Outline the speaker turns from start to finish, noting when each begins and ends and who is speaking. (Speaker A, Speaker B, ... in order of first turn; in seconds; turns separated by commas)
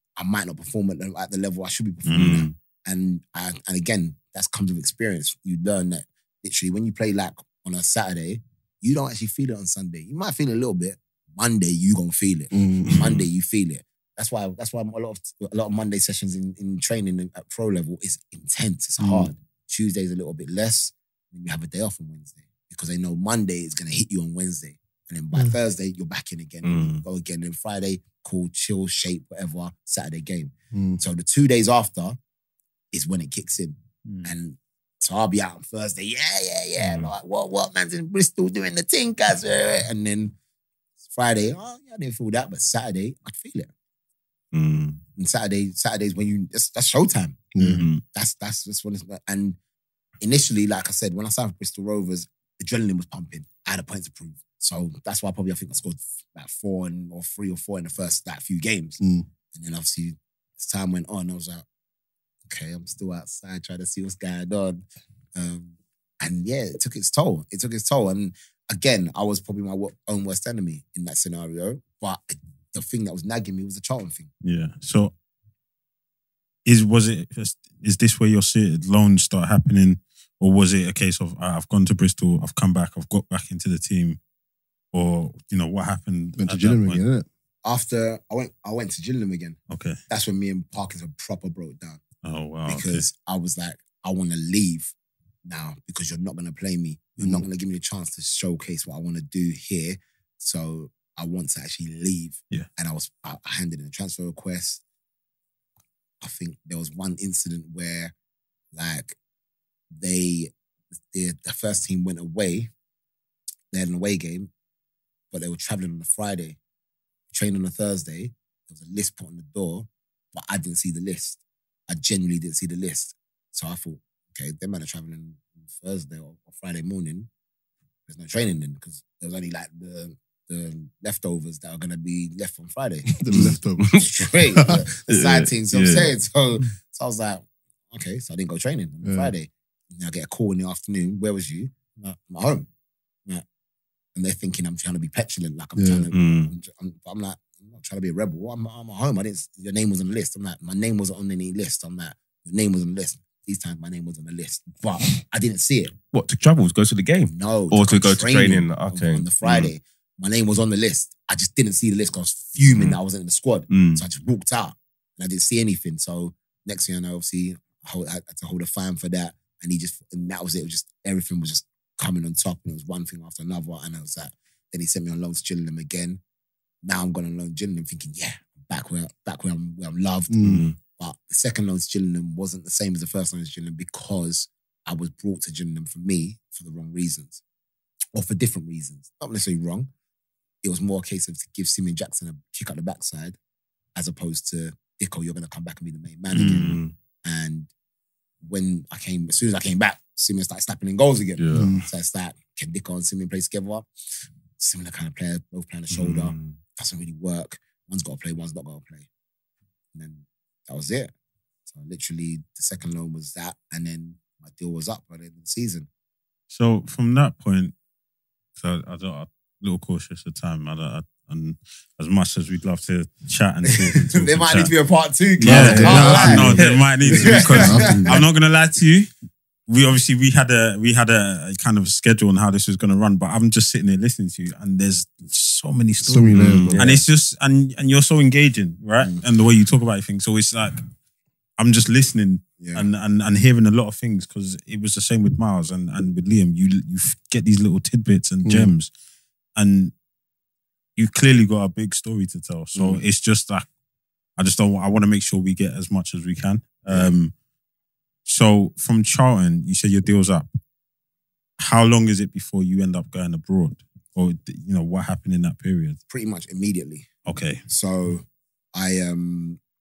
Speaker A: 0.2-32.2, Speaker B: 2.1-2.5, Speaker C: 2.1-2.5, Speaker D: 12.5-13.1, Speaker C: 12.9-13.1, Speaker C: 26.6-27.0, Speaker D: 30.7-31.0, Speaker A: 32.9-40.4, Speaker A: 41.1-43.7, Speaker C: 44.5-45.0, Speaker A: 45.2-47.5, Speaker D: 47.5-47.9, Speaker B: 47.6-47.9, Speaker C: 47.6-48.0, Speaker A: 48.1-49.6, Speaker A: 50.2-59.0, Speaker D: 59.0-59.3, Speaker A: 59.5-61.6, Speaker A: 62.5-64.8, Speaker A: 65.4-74.3, Speaker B: 74.4-75.1, Speaker B: 76.7-84.2, Speaker B: 84.9-87.0, Speaker D: 86.4-87.3, Speaker A: 87.6-89.6, Speaker B: 89.7-90.0, Speaker A: 90.1-92.0, Speaker B: 92.2-93.1, Speaker A: 92.7-94.9, Speaker A: 95.5-104.8, Speaker A: 106.2-108.1, Speaker A: 108.7-109.2, Speaker A: 110.0-110.5, Speaker A: 111.1-112.7, Speaker A: 113.7-114.5, Speaker A: 115.3-116.6, Speaker A: 117.3-127.3, Speaker A: 128.1-142.7, Speaker D: 133.1-134.0, Speaker C: 133.3-134.1, Speaker C: 135.1-136.1, Speaker D: 139.0-139.3, Speaker A: 144.2-155.9, Speaker D: 145.8-146.1, Speaker C: 146.1-146.5, Speaker C: 156.1-159.7, Speaker A: 157.3-176.2, Speaker C: 162.7-163.0, Speaker C: 163.7-164.0, Speaker A: 176.8-187.4, Speaker D: 180.3-180.7, Speaker C: 180.4-180.7, Speaker A: 188.2-189.9, Speaker A: 190.6-193.4, Speaker A: 194.0-197.7, Speaker C: 196.4-196.9, Speaker D: 196.4-196.7, Speaker A: 198.4-203.9, Speaker C: 201.4-201.7, Speaker D: 201.5-201.9, Speaker A: 204.6-209.1, Speaker C: 205.9-206.6, Speaker A: 209.9-211.1, Speaker A: 211.7-215.9, Speaker B: 216.5-217.7, Speaker B: 218.6-224.8, Speaker A: 223.7-228.2, Speaker B: 225.4-229.1, Speaker D: 225.4-228.2, Speaker B: 229.7-240.8, Speaker D: 236.0-237.0, Speaker C: 236.3-237.0, Speaker B: 241.6-248.9, Speaker A: 242.6-242.9, Speaker D: 248.4-248.7, Speaker B: 249.6-249.9, Speaker B: 251.0-253.7, Speaker B: 254.4-257.3, Speaker A: 256.9-257.1, Speaker B: 258.2-260.5, Speaker B: 261.6-266.0, Speaker A: 266.1-267.1, Speaker B: 267.2-267.6, Speaker A: 267.7-269.6